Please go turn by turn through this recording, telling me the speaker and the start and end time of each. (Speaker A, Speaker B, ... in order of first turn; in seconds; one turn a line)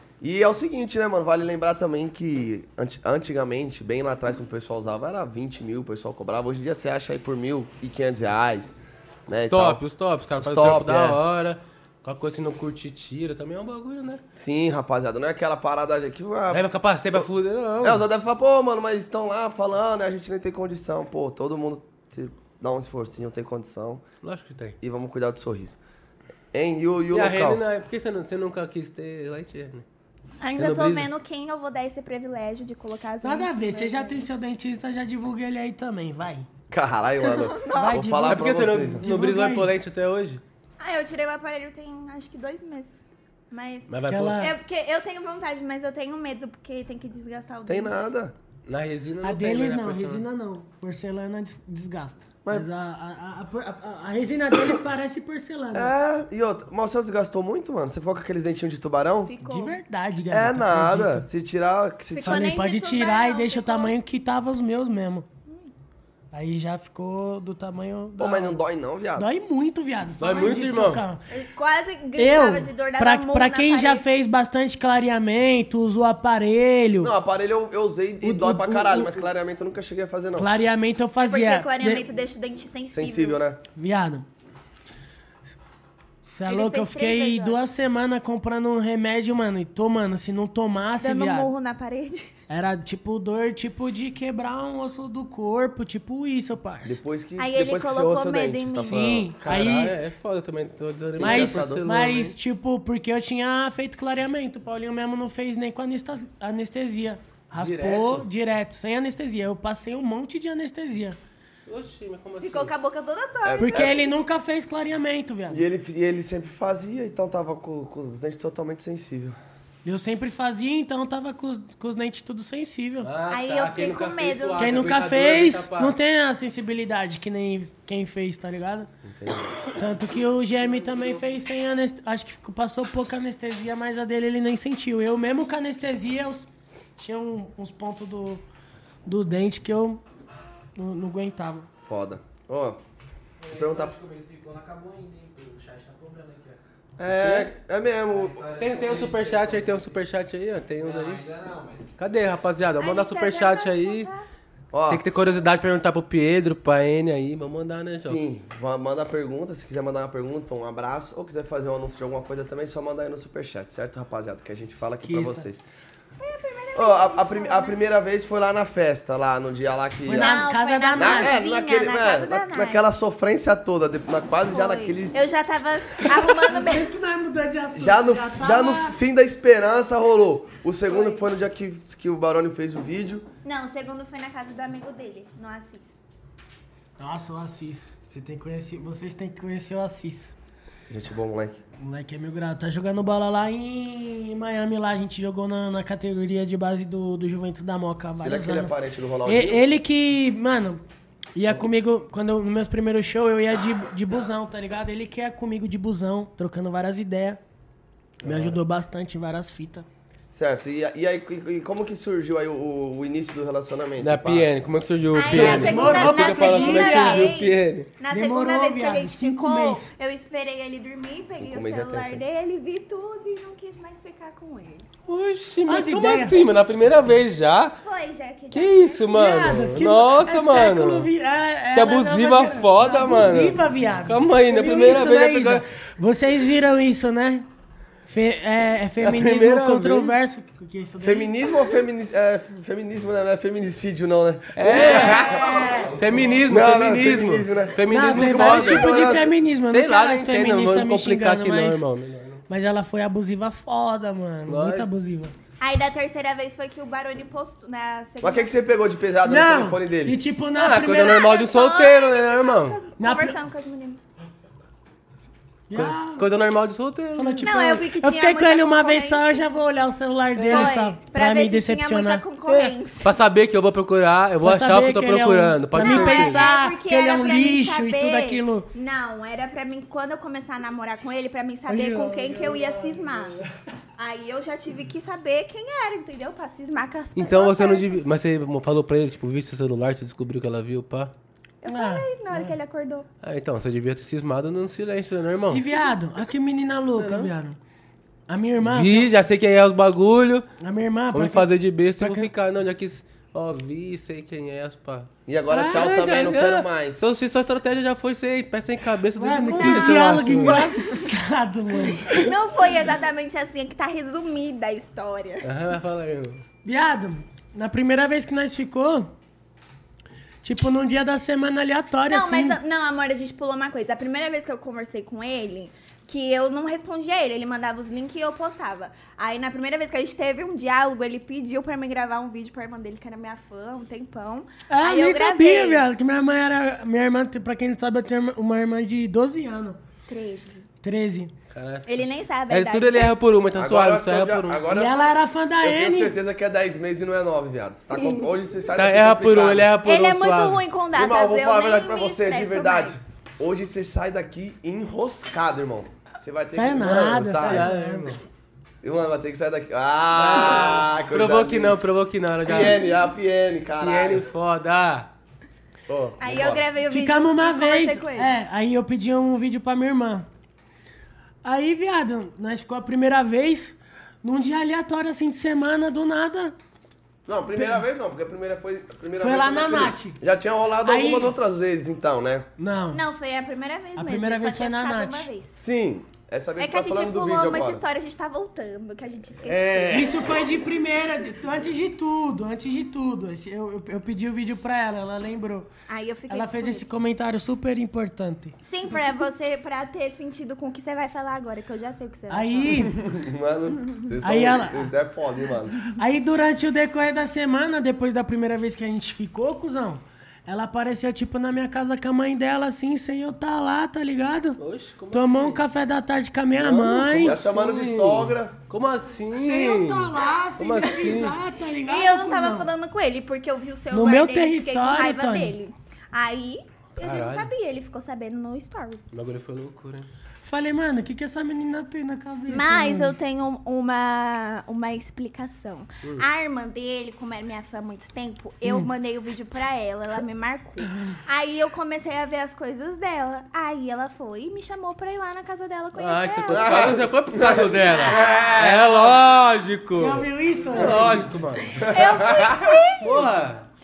Speaker A: 0.2-8.7
Speaker A: 9.3-9.8
Speaker B: 9.5-14.2
Speaker A: 10.4-11.2
Speaker A: 14.4-17.3
Speaker B: 16.5-18.1
Speaker A: 17.8-24.0
Speaker B: 24.2-24.8
Speaker A: 24.8-25.8
Speaker A: 26.5-27.6
Speaker B: 27.1-29.9
Speaker C: 30.4-34.3
Speaker B: 30.6-31.1
Speaker D: 33.2-36.5
Speaker A: 36.7-39.0
Speaker C: 37.3-38.0
Speaker D: 37.7-39.7
Speaker B: 38.2-40.4
Speaker C: 40.8-48.0
Speaker B: 43.9-44.4
Speaker D: 44.1-44.6
Speaker A: 47.7-48.3
Speaker B: 48.7-50.2
Speaker D: 49.2-55.9
Speaker A: 55.7-59.3
Speaker C: 59.2-59.8
Speaker D: 59.5-61.3
Speaker A: 60.3-62.5
Speaker C: 62.1-63.9
Speaker D: 62.2-65.3
Speaker C: 65.5-65.7
Speaker D: 66.3-68.6
Speaker A: 68.2-69.3
Speaker D: 69.2-71.2
Speaker B: 70.2-71.0
Speaker C: 71.3-74.1
Speaker D: 72.2-77.1
Speaker A: 77.0-80.5
Speaker D: 78.2-79.2
Speaker D: 80.4-82.1
Speaker C: 81.2-83.4
Speaker A: 82.9-83.6
Speaker D: 83.8-84.3
Speaker D: 86.3-91.5
Speaker C: 86.5-87.6
Speaker C: 91.0-92.3
Speaker D: 92.5-97.0
Speaker A: 96.8-99.3
Speaker C: 97.4-99.1
Speaker D: 98.8-100.0
Speaker B: 99.4-102.3
Speaker A: 101.1-101.8
Speaker D: 101.2-111.2
Speaker B: 107.6-108.3
Speaker B: 111.7-112.7
Speaker C: 112.4-113.9
Speaker A: 113.4-114.0
Speaker D: 113.6-115.6
Speaker A: 115.5-119.4
Speaker D: 119.8-123.1
Speaker B: 123.0-126.0
Speaker C: 123.3-124.7
Speaker D: 124.6-128.9
Speaker A: 129.0-129.6
Speaker D: 129.7-138.4
Speaker D: 139.1-140.0
Speaker D: 140.8-141.7
Speaker A: 141.9-142.8
Speaker E: 143.4-146.6
Speaker A: 143.5-143.9
Speaker A: 147.0-148.4
Speaker B: 147.2-147.5
Speaker E: 148.1-150.0
Speaker B: 148.6-151.2
Speaker E: 150.8-151.9
Speaker B: 152.0-154.1
Speaker C: 152.8-154.3
Speaker A: 154.7-155.1
Speaker B: 154.9-158.2
Speaker A: 158.0-165.6
Speaker D: 165.0-165.5
Speaker C: 166.2-167.8
Speaker A: 166.8-175.2
Speaker D: 170.1-171.4
Speaker C: 170.1-172.8
Speaker C: 174.5-176.9
Speaker D: 176.2-179.0
Speaker A: 177.7-183.3
Speaker D: 180.9-181.2
Speaker C: 183.4-185.9
Speaker D: 187.0-190.3
Speaker A: 190.9-191.6
Speaker D: 191.8-200.8
Speaker A: 198.2-199.7
Speaker D: 201.3-207.4
Speaker A: 208.2-208.6
Speaker D: 208.2-209.9
Speaker A: 210.3-214.5
Speaker B: 214.0-217.9
Speaker C: 215.1-224.9
Speaker D: 215.3-217.3
Speaker D: 218.1-219.9
Speaker A: 221.4-222.2
Speaker B: 225.1-227.8
Speaker D: 225.7-226.4
Speaker C: 227.8-229.1
Speaker B: 228.5-231.1
Speaker D: 229.1-237.5
Speaker B: 231.7-235.6
Speaker D: 238.1-241.3
Speaker B: 239.0-240.2
Speaker A: 241.0-245.6
Speaker B: 244.6-245.3
Speaker D: 244.6-246.0
Speaker E: 245.2-246.5
Speaker B: 246.0-249.1
Speaker A: 246.5-249.3
Speaker D: 247.9-251.8
Speaker B: 249.7-252.4
Speaker D: 252.5-255.3
Speaker B: 254.5-254.9
Speaker C: 255.6-258.5
Speaker A: 258.2-260.2
Speaker D: 259.2-261.3
Speaker B: 260.6-262.8
Speaker C: 261.0-264.0
Speaker D: 263.0-263.4
Speaker D: 265.7-266.3
Speaker B: 265.7-267.5
Speaker D: 267.1-272.8
Speaker C: 267.4-269.4
Speaker B: 270.4-270.8
Speaker C: 270.5-273.2
Speaker B: 273.0-276.5
Speaker D: 274.4-278.7
Speaker C: 275.8-283.4
Speaker D: 281.7-283.5
Speaker C: 284.0-288.1
Speaker B: 287.1-291.1
Speaker C: 291.6-293.1
Speaker D: 291.7-292.6
Speaker B: 293.2-295.6
Speaker D: 295.5-297.6
Speaker B: 297.0-297.3
Speaker D: 298.3-299.1
Speaker B: 298.6-300.5
Speaker D: 300.6-301.5
Speaker B: 301.1-305.1
Speaker D: 302.0-302.3
Speaker A: 305.3-307.1
Speaker D: 305.5-305.9
Speaker B: 305.7-310.6
Speaker D: 309.2-312.3
Speaker C: 309.6-311.1
Speaker C: 312.1-315.5
Speaker B: 315.4-316.4
Speaker D: 316.6-319.1
Speaker D: 320.4-322.6
Speaker C: 322.1-335.9
Speaker D: 334.7-339.8
Speaker C: 340.1-340.7
Speaker D: 340.8-341.3
Speaker B: 341.5-344.6
Speaker C: 341.9-343.1
Speaker A: 343.6-345.0
Speaker D: 344.7-346.2
Speaker A: 345.6-349.7
Speaker C: 347.9-348.3
Speaker B: 348.7-350.6
Speaker C: 349.8-353.0
Speaker A: 350.9-357.7
Speaker D: 356.5-358.1
Speaker B: 357.4-358.2
Speaker A: 358.8-361.8
Speaker B: 360.1-362.8
Speaker A: 362.4-364.2
Speaker B: 363.8-365.1
Speaker A: 365.9-366.7
Speaker C: 366.2-368.3
Speaker D: 366.9-370.3
Speaker D: 371.4-376.6
Speaker A: 377.3-382.5
Speaker D: 377.5-377.8
Speaker D: 379.2-380.2
Speaker D: 380.8-381.4
Speaker D: 382.6-383.0
Speaker C: 382.9-385.6
Speaker D: 384.0-385.3
Speaker A: 385.6-387.8
Speaker C: 386.6-390.3
Speaker B: 389.4-390.2
Speaker D: 389.9-395.7
Speaker C: 395.9-396.9
Speaker D: 396.3-398.6
Speaker C: 398.6-402.8
Speaker D: 402.3-402.9
Speaker A: 402.9-405.8
Speaker D: 404.2-404.9
Speaker D: 406.0-414.6
Speaker B: 414.6-415.6
Speaker D: 415.1-417.4
Speaker B: 416.6-421.4
Speaker A: 417.2-418.6
Speaker D: 419.3-422.7
Speaker C: 421.9-429.0
Speaker D: 423.9-425.6
Speaker B: 427.0-427.5
Speaker B: 429.1-430.1
Speaker D: 430.4-433.2
Speaker C: 432.5-447.0
Speaker B: 445.9-451.9
Speaker A: 446.5-449.2
Speaker C: 447.9-448.6
Speaker D: 450.0-451.2
Speaker A: 450.8-451.1
Speaker C: 451.8-453.3
Speaker A: 451.8-452.8
Speaker B: 453.0-453.6